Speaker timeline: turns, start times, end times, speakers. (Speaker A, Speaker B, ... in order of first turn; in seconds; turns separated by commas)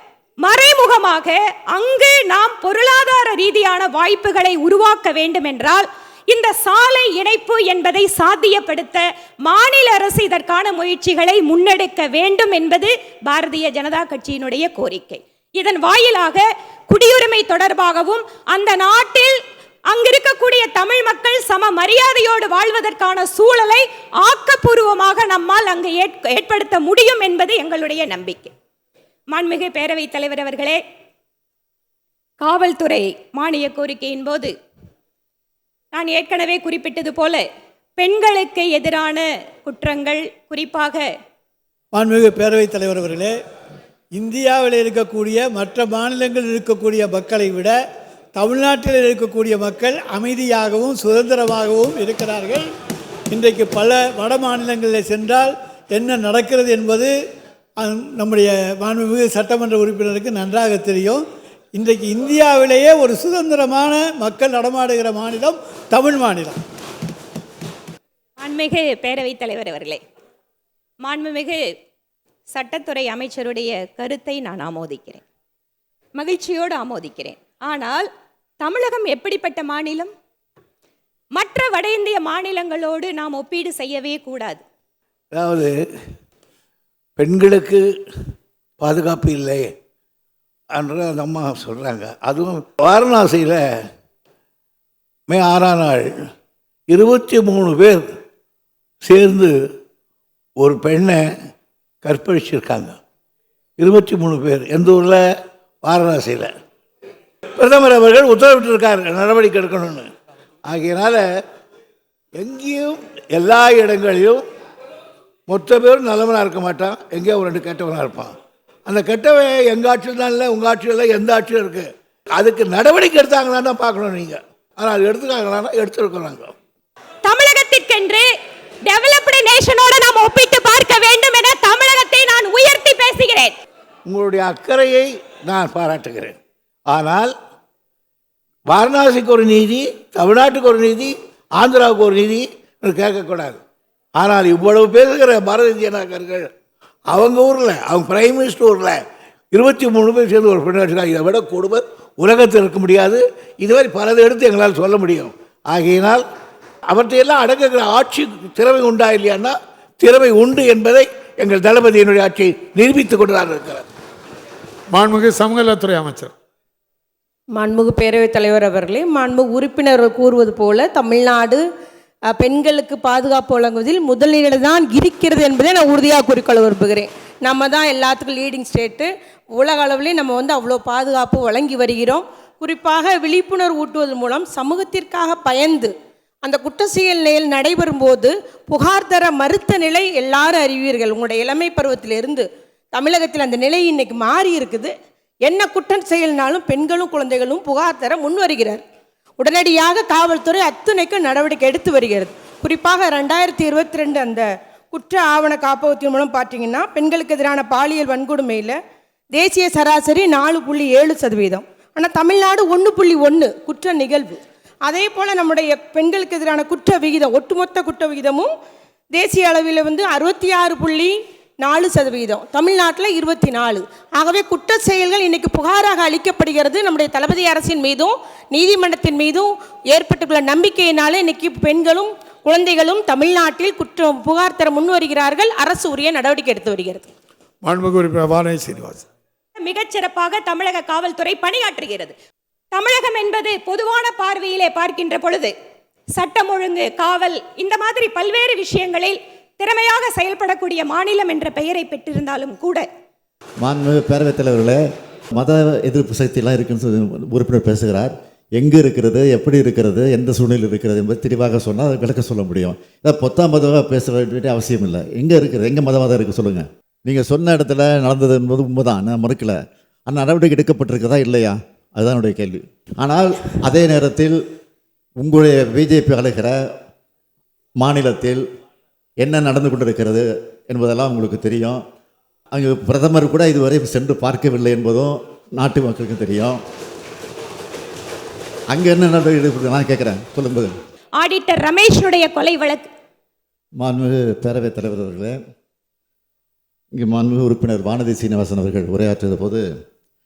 Speaker A: 0.4-19.4, Speaker A: 19.9-28.5, Speaker A: 29.3-30.8, Speaker A: 32.4-34.5, Speaker A: 35.9-37.5, Speaker A: 38.0-41.1, Speaker B: 41.9-43.4, Speaker B: 44.1-47.8, Speaker B: 48.4-52.7, Speaker B: 53.3-57.1, Speaker B: 57.8-66.6, Speaker A: 68.4-70.0, Speaker A: 71.0-71.6, Speaker A: 72.5-75.2, Speaker A: 76.2-78.1, Speaker A: 78.6-80.1, Speaker A: 81.3-84.6, Speaker C: 85.3-85.8, Speaker C: 87.2-87.8, Speaker C: 88.8-89.7, Speaker C: 90.7-93.7, Speaker C: 95.3-96.2, Speaker C: 96.9-98.2, Speaker C: 99.0-99.5, Speaker C: 100.6-101.3, Speaker C: 102.0-103.0, Speaker C: 103.8-105.2, Speaker C: 105.8-106.5, Speaker C: 107.6-110.1, Speaker C: 110.7-111.3, Speaker C: 112.4-114.4, Speaker C: 115.5-118.3, Speaker C: 118.9-126.5, Speaker A: 127.2-128.3, Speaker A: 128.8-133.5, Speaker C: 134.1-136.4, Speaker C: 136.9-137.3, Speaker C: 138.7-143.6, Speaker C: 144.2-146.5, Speaker C: 147.1-149.0, Speaker C: 149.5-156.2, Speaker C: 156.9-163.8, Speaker D: 164.9-166.3, Speaker E: 167.6-171.6, Speaker E: 172.3-185.9, Speaker E: 186.4-194.9, Speaker E: 195.4-198.8, Speaker E: 199.4-208.8, Speaker E: 209.3-218.5, Speaker E: 219.1-237.1, Speaker D: 237.6-239.1, Speaker A: 239.6-242.1, Speaker A: 242.7-245.5, Speaker A: 246.2-252.9, Speaker F: 253.6-254.8, Speaker F: 255.3-274.4, Speaker F: 275.2-276.6, Speaker F: 277.8-278.4, Speaker F: 279.2-281.8, Speaker F: 282.5-286.6, Speaker F: 288.7-290.7, Speaker A: 291.1-292.9, Speaker F: 293.8-295.4, Speaker F: 297.0-299.6